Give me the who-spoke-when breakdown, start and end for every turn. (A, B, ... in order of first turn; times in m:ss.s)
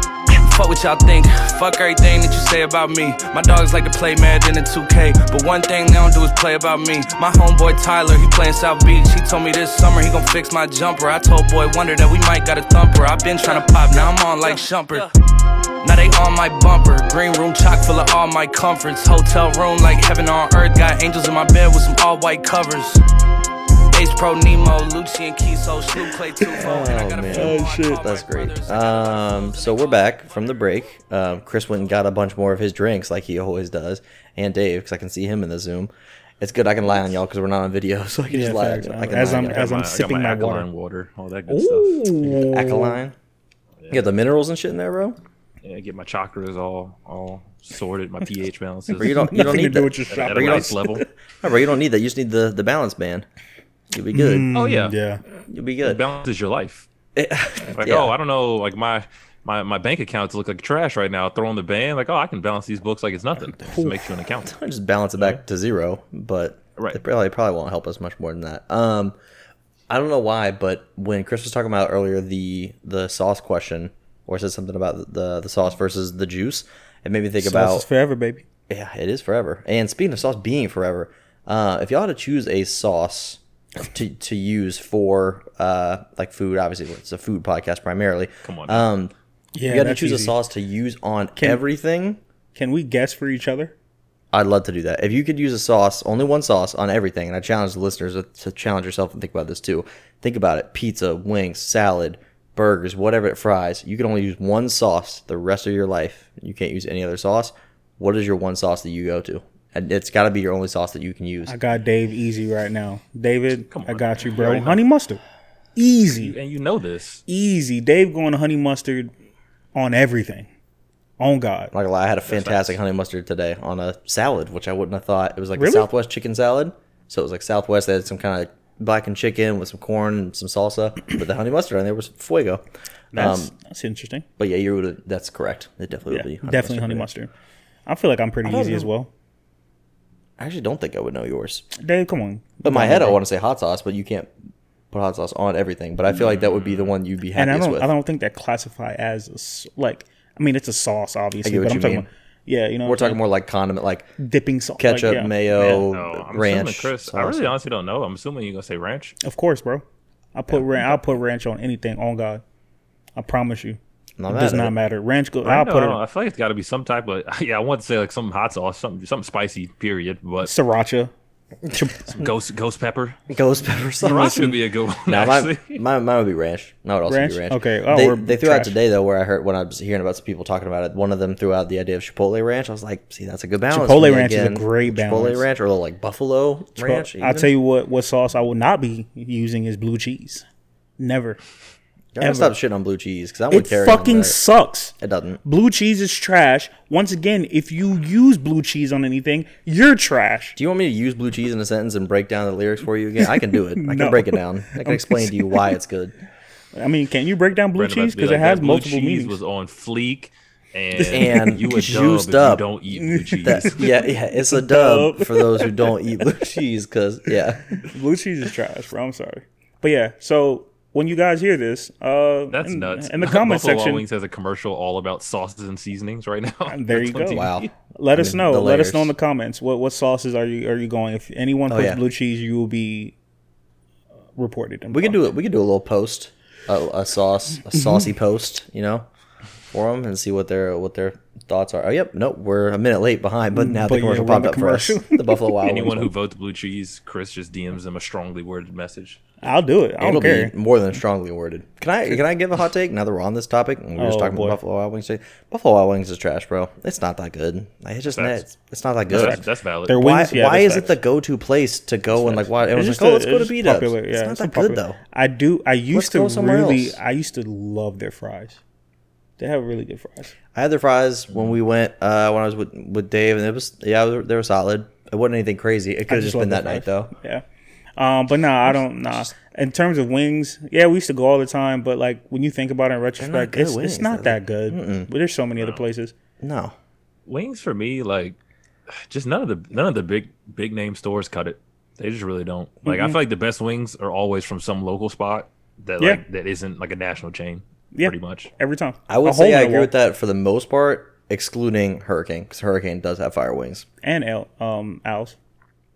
0:00.3-0:15.1 A
0:15.8-0:23.0 A
0:23.9-0:30.6 A
0:26.5-0:39.6 B
0:27.3-0:28.0 C
0:38.3-0:40.7 C
0:39.2-0:42.2 D
0:41.5-0:43.0 C
0:42.4-0:43.1 B
0:43.9-0:45.2 B
0:45.6-0:51.0 D
0:49.0-0:53.2 B
0:49.0-0:51.0 C
0:53.9-0:54.5 B
0:54.1-0:55.2 C
0:54.5-0:54.9 D
0:55.5-0:56.0 B
0:55.8-0:56.9 D
0:57.2-0:58.1 B
0:57.8-1:04.5 D
1:03.6-1:04.1 C
1:04.4-1:09.2 B
1:09.9-1:17.8 B
1:17.4-1:18.4 C
1:18.7-1:29.1 B
1:28.4-1:28.8 D
1:29.5-1:30.4 C
1:29.6-1:32.2 B
1:31.4-1:31.6 C
1:32.5-1:33.7 C
1:34.3-1:51.6 B
1:51.4-1:55.2 C
1:53.7-1:54.8 D
1:55.8-1:56.4 C
1:56.2-1:57.2 D
1:57.3-1:59.1 C
1:59.7-2:00.5 C
2:01.2-2:01.7 C
2:01.7-2:12.6 B
2:02.3-2:02.8 D
2:05.6-2:05.9 C
2:13.1-2:14.2 C
2:13.1-2:13.5 B
2:14.4-2:17.1 B
2:16.1-2:17.3 C
2:17.8-2:19.1 C
2:18.4-2:18.9 B
2:20.4-2:21.6 B
2:21.8-2:23.2 C
2:22.6-2:24.3 B
2:24.9-2:27.9 B
2:26.1-2:26.9 D
2:27.3-2:33.2 C
2:31.4-2:32.1 B
2:32.8-2:34.1 B
2:34.2-2:35.8 C
2:34.8-2:37.5 B
2:35.5-2:39.2 D
2:39.2-2:42.4 C
2:43.2-2:46.0 C
2:44.2-2:44.7 B
2:45.4-2:50.5 D
2:50.4-2:51.1 C
2:51.8-2:52.1 C
2:52.1-2:53.2 D
2:53.3-3:07.5 B
2:54.0-2:55.8 D
2:57.1-2:58.8 C
3:03.7-3:05.5 C
3:06.8-3:10.4 C
3:11.0-3:11.4 C
3:12.1-3:14.4 B
3:12.2-3:12.5 C
3:13.5-3:20.6 C
3:15.0-3:15.4 B
3:20.6-3:26.1 B
3:23.4-3:25.7 C
3:26.7-3:29.4 C
3:27.7-3:33.8 D
3:31.0-3:31.5 C
3:31.1-3:32.6 B
3:32.9-3:36.3 C
3:33.4-3:37.8 B
3:37.8-3:44.0 C
3:42.5-3:47.7 D
3:46.7-3:53.1 C
3:47.3-3:49.1 B
3:51.7-3:52.0 B
3:54.4-3:55.2 C
3:54.9-3:59.1 B
3:59.7-4:06.1 B
4:03.5-4:05.5 C
4:05.6-4:09.2 D
4:09.4-4:10.5 C
4:10.0-4:19.4 B
4:14.0-4:14.6 C
4:18.1-4:18.4 D
4:19.1-4:20.0 D
4:19.1-4:20.9 C
4:20.0-4:25.0 B
4:22.2-4:28.6 C
4:25.9-4:27.0 B
4:29.4-4:30.3 C
4:30.5-4:37.1 B
4:36.1-4:37.4 C
4:38.0-4:46.1 C
4:43.2-4:45.1 B
4:45.6-4:45.8 D
4:46.4-4:46.7 B
4:47.3-4:48.4 D
4:49.0-4:58.5 D
4:52.8-4:53.2 C
4:57.9-4:59.9 C
4:59.1-5:03.8 B
5:04.0-5:05.4 C